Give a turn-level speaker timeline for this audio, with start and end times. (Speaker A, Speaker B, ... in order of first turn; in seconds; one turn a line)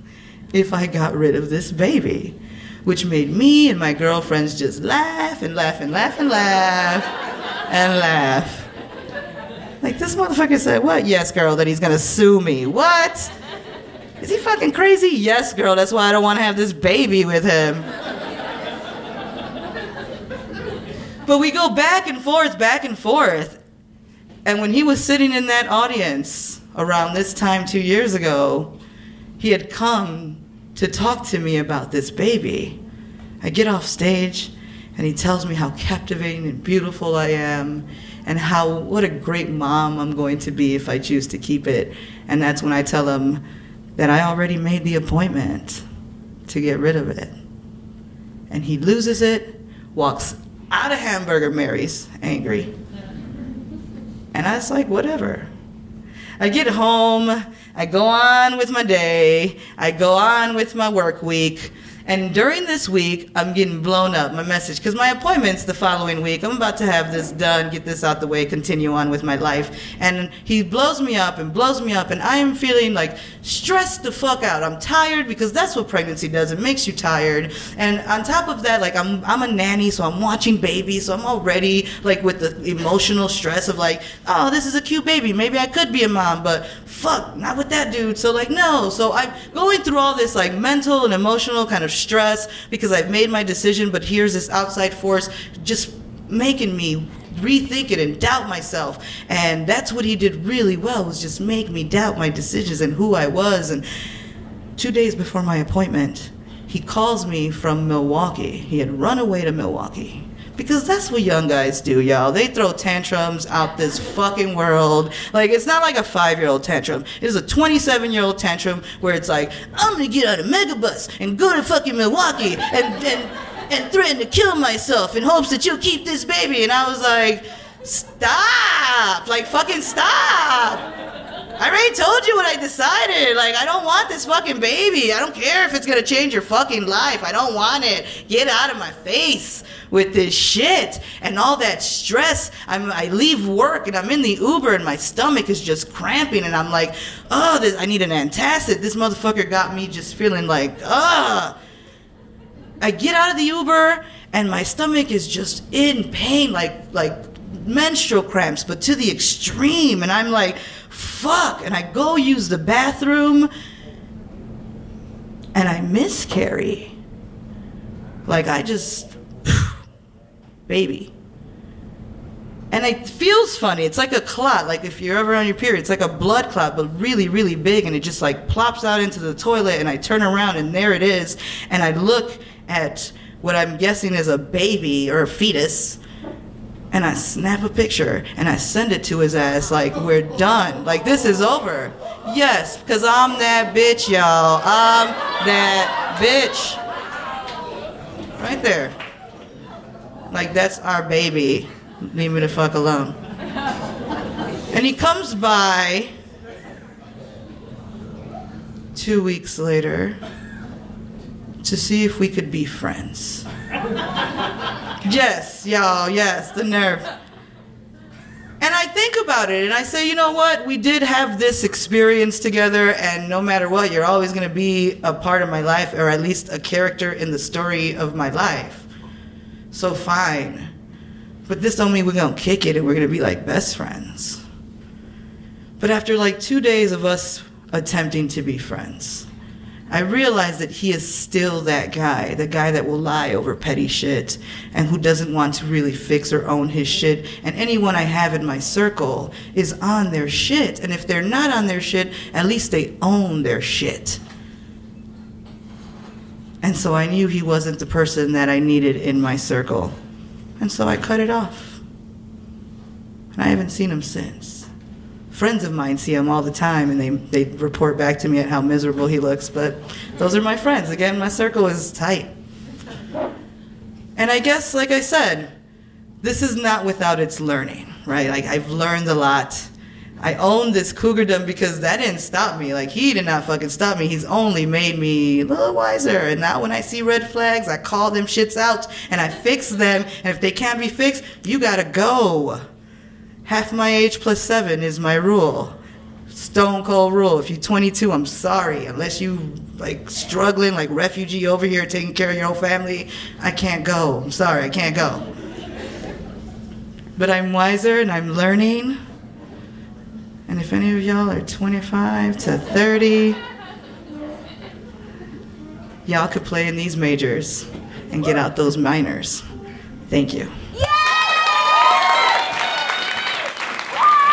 Speaker A: 0.5-7.1
Speaker A: 7.7-8.7
Speaker A: 9.8-13.3
Speaker A: 14.2-17.9
Speaker A: 21.2-23.6
Speaker A: 24.4-28.7
Speaker A: 29.4-32.8
Speaker A: 33.4-43.4
Speaker A: 44.0-45.8
Speaker A: 46.5-47.3
Speaker A: 48.5-52.7
Speaker A: 54.3-55.5
Speaker A: 56.4-103.8
Speaker A: 104.8-130.9
Speaker A: 131.6-151.6
Speaker A: 152.8-163.5
Speaker A: 165.5-166.9
Speaker A: 168.2-169.8
Speaker A: 170.7-171.1
Speaker A: 172.7-186.0
Speaker A: 186.9-196.8
Speaker A: 198.4-198.9
Speaker A: 200.3-203.2
Speaker A: 204.7-206.1
Speaker A: 208.9-210.2
Speaker A: 211.6-213.5
Speaker A: 215.0-217.1
Speaker A: 218.6-228.9
Speaker A: 229.7-230.7
Speaker A: 231.5-234.4
Speaker A: 235.8-239.3
Speaker A: 239.9-254.2
Speaker A: 256.6-259.9
Speaker A: 260.6-261.8
Speaker A: 263.3-264.7
Speaker A: 265.3-272.3
Speaker A: 274.1-275.5
Speaker A: 276.2-292.6
Speaker A: 293.4-295.8
Speaker A: 296.3-305.3
Speaker A: 307.1-309.0
Speaker A: 310.5-313.4
Speaker A: 316.0-319.4
Speaker A: 320.1-320.5